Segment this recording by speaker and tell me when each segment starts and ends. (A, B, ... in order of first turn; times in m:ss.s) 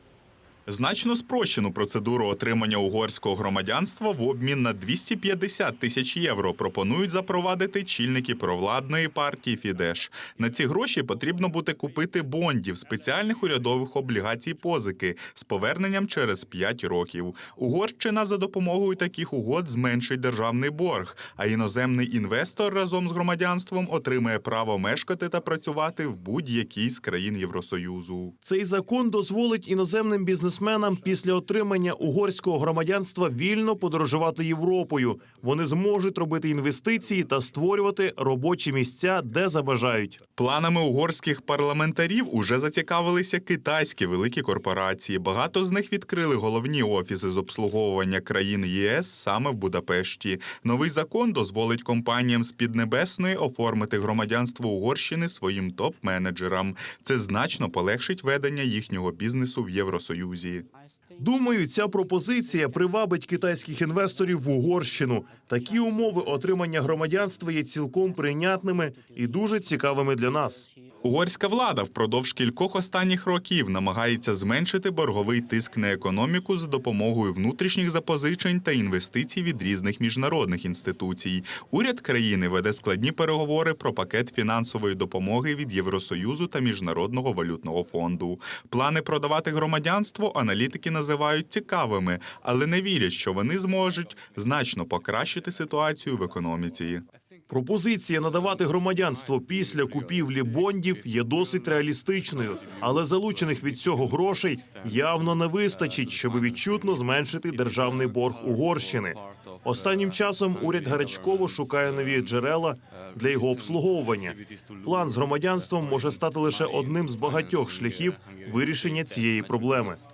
0:00.7-0:28.3 A
0:28.4-0:40.2 B
0:40.4-1:00.7 A
1:01.2-1:10.7 B
1:11.0-1:37.0 A
1:37.5-2:00.0 B